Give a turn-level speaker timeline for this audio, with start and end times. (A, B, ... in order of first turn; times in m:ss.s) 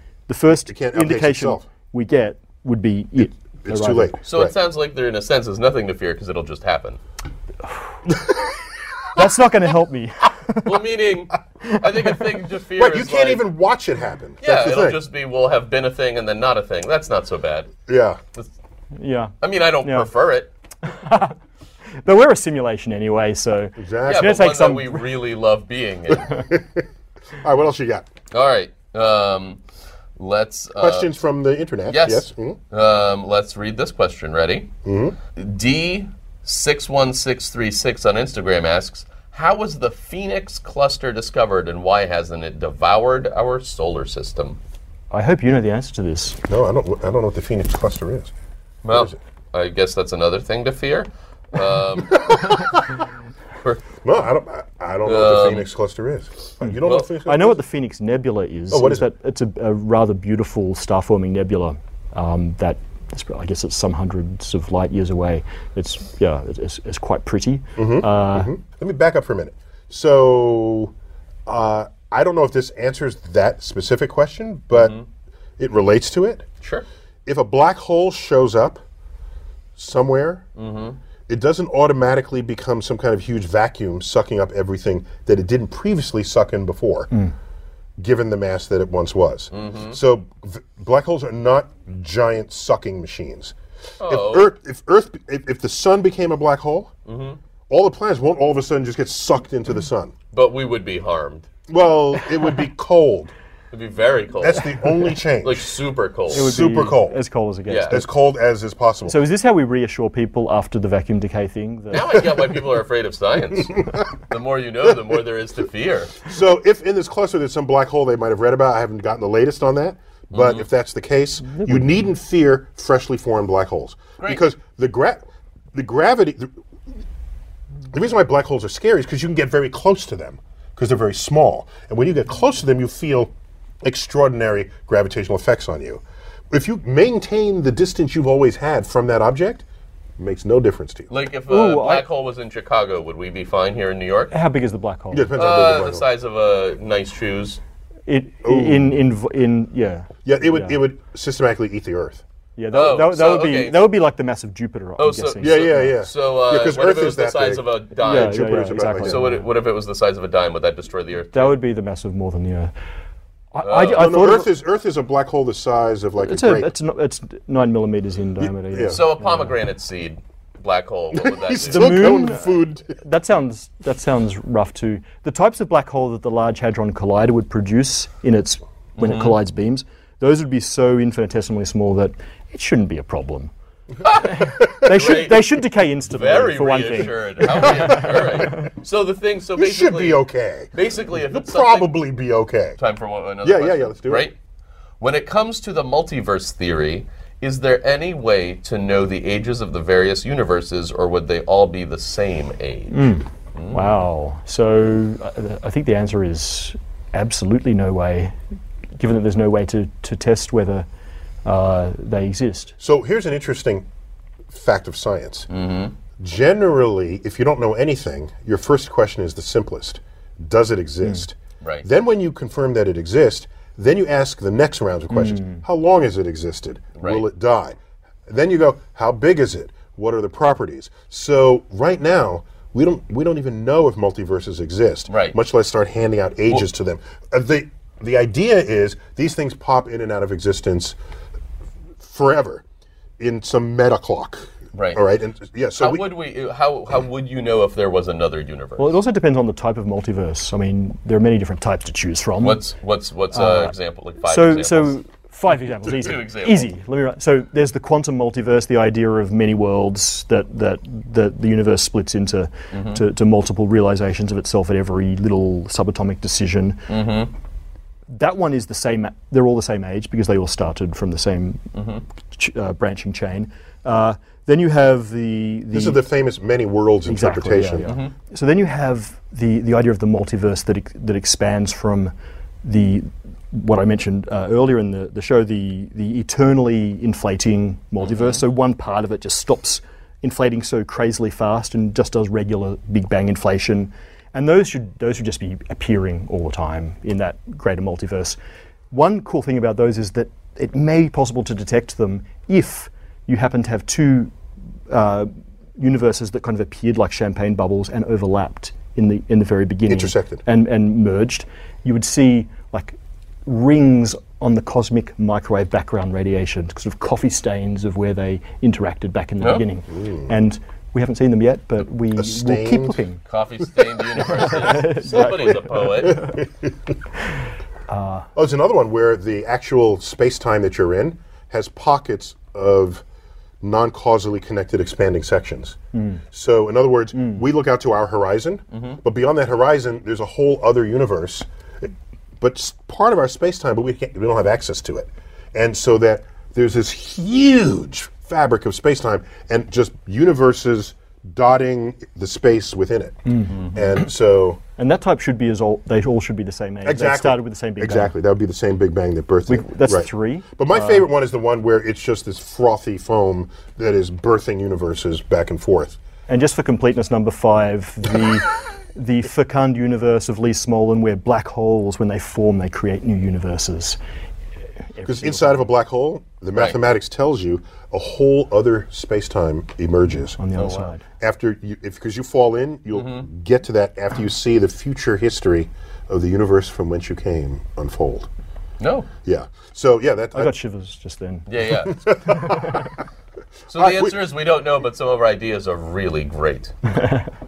0:00.3-0:04.2 A
0:00.7-0:01.7 B
0:03.6-0:04.5 B
0:04.3-0:07.0 C
0:09.2-0:10.8 A
0:10.6-0:13.4 C
0:12.8-0:15.0 B
0:14.4-0:17.8 C
0:17.9-0:18.2 B
0:19.0-0:20.1 A
0:19.4-0:20.5 C
0:20.8-0:21.3 A
0:22.0-0:25.0 A
0:23.8-0:24.4 B
0:24.0-0:26.3 C
0:26.1-0:26.8 B
0:27.4-0:28.1 B
0:28.3-0:29.6 C
0:30.2-0:31.1 C
0:30.8-0:32.6 B
0:31.9-0:34.7 C
0:34.8-0:35.2 B
0:35.3-0:44.6 C
0:45.1-0:46.4 A
0:46.5-0:48.3 B
0:48.8-0:52.6 C
0:48.9-0:49.2 B
0:52.1-0:52.8 B
0:54.0-0:57.6 B
0:55.0-0:55.7 C
0:56.6-1:08.5 A
0:56.8-0:57.1 C
0:58.7-0:59.0 B
1:07.8-1:10.9 B
1:11.4-1:15.0 B
1:14.7-1:15.0 C
1:15.6-1:16.4 B
1:17.2-1:18.8 B
1:19.8-1:20.4 B
1:20.6-1:21.0 C
1:21.3-1:27.1 B
1:28.0-1:36.9 B
1:29.5-1:30.0 C
1:34.0-1:34.5 C
1:37.0-1:37.4 C
1:37.7-1:40.1 B
1:40.3-1:41.5 C
1:41.7-1:43.3 B
1:43.7-1:46.5 C
1:44.4-1:45.7 B
1:46.2-1:47.2 B
1:46.3-1:48.1 A
1:47.7-1:48.0 C
1:47.9-1:49.2 B
1:49.1-1:52.2 A
1:51.9-1:56.3 C
1:56.2-2:05.2 B
2:00.3-2:00.6 C
2:01.4-2:02.0 A
2:05.7-2:06.5 B
2:07.9-2:13.3 B
2:13.8-2:19.6 B
2:20.2-2:21.1 B
2:21.1-2:24.3 C
2:21.5-2:22.0 A
2:24.3-2:25.3 A
2:25.1-2:26.0 B
2:25.4-2:27.6 C
2:28.1-2:30.8 A
2:28.4-2:28.9 B
2:30.2-2:32.2 B
2:32.6-2:36.0 A
2:32.7-2:33.8 C
2:35.0-2:41.6 C
2:35.4-2:39.2 B
2:38.0-2:39.4 A
2:41.3-2:42.7 A
2:43.5-2:44.5 A
2:43.6-2:44.1 C
2:43.8-2:46.7 B
2:46.2-2:49.5 A
2:48.4-2:49.0 B
2:48.9-2:52.2 C
2:51.1-2:53.0 B
2:51.7-3:03.5 A
2:59.0-2:59.4 C
3:04.0-3:05.5 C
3:04.2-3:08.7 A
3:06.0-3:12.0 C
3:07.7-3:08.5 B
3:09.6-3:12.8 B
3:12.8-3:14.3 C
3:13.4-3:14.3 B
3:15.0-3:23.9 C
3:22.9-3:28.4 A
3:29.0-3:30.9 A
3:31.4-3:32.8 A
3:32.8-3:33.8 B
3:34.5-3:35.5 B
3:35.5-3:35.9 C
3:36.2-3:47.8 B
3:45.1-3:45.6 A
3:47.0-3:47.2 C
3:48.3-4:01.0 B
3:55.1-3:55.4 C
4:02.0-4:02.6 B
4:03.2-4:06.0 B
4:04.7-4:05.0 C
4:05.8-4:08.9 C
4:08.8-4:12.6 A
4:12.4-4:15.0 C
4:13.3-4:26.9 A
4:15.8-4:16.7 C
4:22.7-4:23.0 C
4:26.9-4:27.3 C
4:28.1-4:31.7 A
4:31.7-4:32.0 C
4:32.3-4:36.0 A
4:35.7-4:37.9 B
4:37.0-4:42.1 A
4:37.8-4:38.1 C
4:42.6-4:58.4 A
4:48.0-4:48.4 C
4:58.9-5:04.3 A
5:04.9-5:23.2 A
5:09.9-5:10.4 B
5:19.9-5:20.3 B
5:22.2-5:23.0 B
5:23.2-5:26.4 C
5:24.2-5:26.7 B
5:24.4-5:26.3 A
5:27.9-5:28.3 A
5:28.3-5:33.0 B
5:33.6-5:35.8 B
5:35.9-5:36.2 A
5:36.3-5:41.5 B
5:37.1-5:37.4 A
5:42.4-5:54.6 B
5:53.3-5:53.6 A
5:54.8-5:58.1 A
5:56.8-6:06.0 B
5:59.5-6:01.1 A
6:06.3-6:14.0 A
6:15.0-6:15.6 A
6:15.0-6:20.4 B
6:20.4-6:21.0 A
6:21.1-6:28.3 B
6:22.9-6:23.3 C
6:28.8-6:29.1 C
6:29.2-6:30.5 B
6:30.3-6:31.5 A
6:31.5-6:32.0 C
6:31.8-6:32.9 B
6:32.3-6:32.8 A
6:33.7-6:36.7 C
6:33.8-6:34.1 B